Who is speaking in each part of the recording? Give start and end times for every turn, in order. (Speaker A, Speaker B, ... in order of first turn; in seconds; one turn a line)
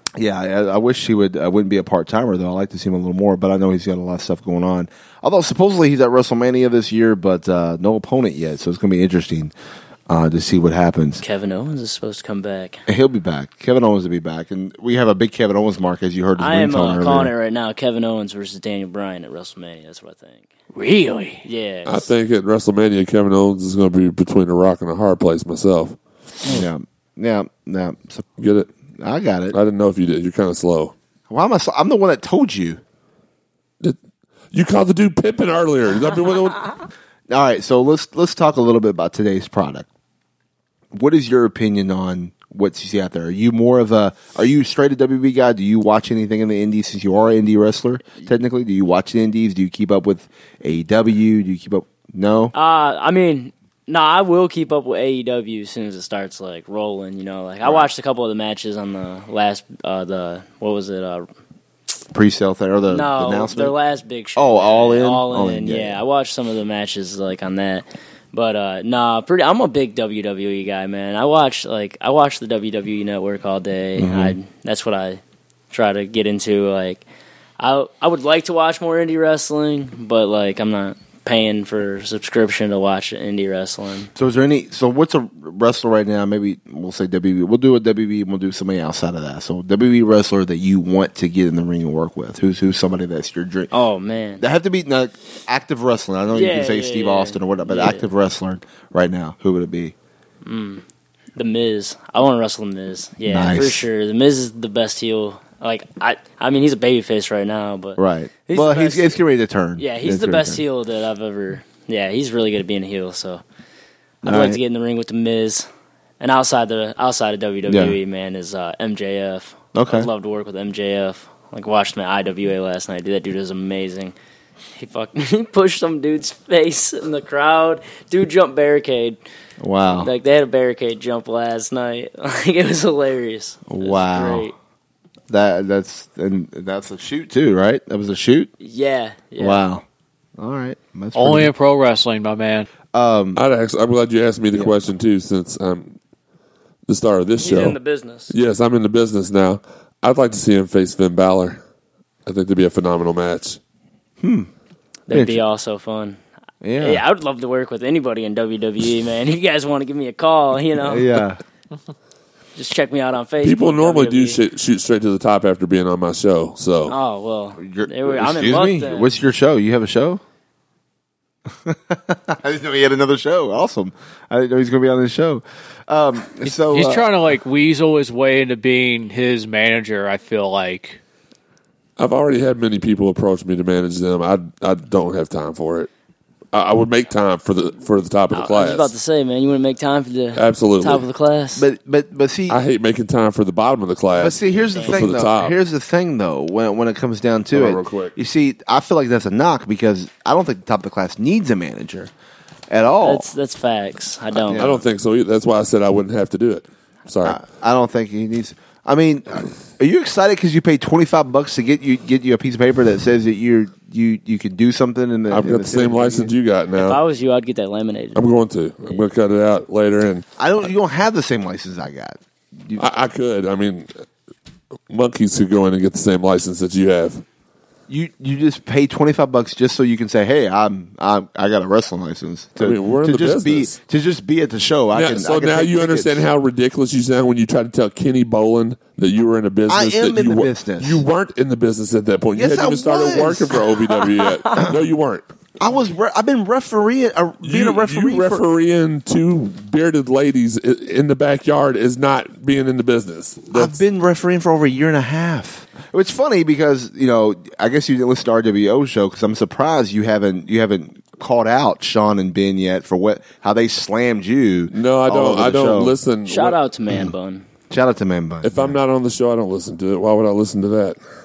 Speaker A: 0.2-9.5
Speaker A: 10.1-11.2
Speaker B: 11.2-12.8
Speaker A: 12.9-17.3
Speaker B: 16.4-20.5
Speaker C: 20.7-21.4
Speaker B: 21.4-22.1
Speaker D: 21.9-26.0
Speaker A: 26.5-28.3
Speaker D: 28.4-28.7
Speaker A: 29.0-29.6
Speaker D: 29.5-30.9
Speaker A: 31.3-32.8
Speaker D: 34.5-36.7
Speaker A: 37.3-39.9
Speaker A: 40.9-52.5
Speaker B: 52.5-61.3
Speaker A: 62.1-63.8
Speaker B: 62.9-77.0
Speaker A: 64.4-66.0
Speaker A: 74.0-74.4
Speaker B: 77.6-84.1
Speaker A: 84.2-93.7
Speaker B: 93.7-94.4
Speaker A: 94.4-100.0
Speaker B: 96.3-98.1
Speaker B: 100.5-100.8
Speaker B: 101.4-109.2
Speaker A: 103.3-103.8
Speaker A: 108.0-110.6
Speaker B: 109.8-113.4
Speaker B: 114.2-115.7
Speaker A: 114.2-114.6
Speaker B: 116.2-124.2
Speaker A: 117.7-118.0
Speaker A: 119.7-120.1
Speaker B: 124.8-129.2
Speaker A: 129.6-130.1
Speaker B: 129.9-134.6
Speaker A: 133.7-134.5
Speaker A: 135.3-138.5
Speaker B: 138.6-139.7
Speaker A: 139.4-139.8
Speaker A: 140.4-141.5
Speaker C: 141.2-142.7
Speaker A: 142.9-143.4
Speaker D: 143.4-146.0
Speaker A: 144.5-144.8
Speaker D: 146.9-147.8
Speaker B: 147.4-148.3
Speaker D: 148.3-151.6
Speaker D: 152.3-153.6
Speaker A: 154.2-154.5
Speaker B: 155.1-156.2
Speaker A: 155.1-155.4
Speaker A: 156.6-157.0
Speaker B: 156.8-161.1
Speaker A: 160.8-161.4
Speaker B: 162.6-164.4
Speaker D: 163.4-166.9
Speaker B: 166.9-169.1
Speaker A: 167.6-170.2
Speaker A: 171.6-177.1
Speaker C: 176.5-181.0
Speaker D: 182.0-185.9
Speaker D: 186.5-188.9
Speaker B: 188.3-191.7
Speaker D: 190.4-191.0
Speaker A: 191.6-192.6
Speaker D: 192.5-195.6
Speaker A: 194.1-202.1
Speaker B: 194.7-195.0
Speaker D: 197.5-198.1
Speaker A: 202.7-203.3
Speaker B: 203.0-204.7
Speaker A: 204.3-204.8
Speaker D: 204.6-207.4
Speaker A: 207.2-216.3
Speaker D: 215.3-217.0
Speaker B: 216.8-218.2
Speaker D: 218.2-220.2
Speaker A: 220.4-222.8
Speaker D: 222.8-223.9
Speaker D: 224.9-227.2
Speaker A: 227.9-236.3
Speaker D: 232.6-233.8
Speaker D: 234.9-245.3
Speaker A: 239.7-241.0
Speaker A: 242.3-243.7
Speaker A: 244.5-244.8
Speaker A: 245.6-248.4
Speaker D: 247.4-253.8
Speaker A: 253.5-266.0
Speaker D: 264.7-266.6
Speaker B: 266.3-267.4
Speaker A: 267.7-268.8
Speaker D: 268.4-271.0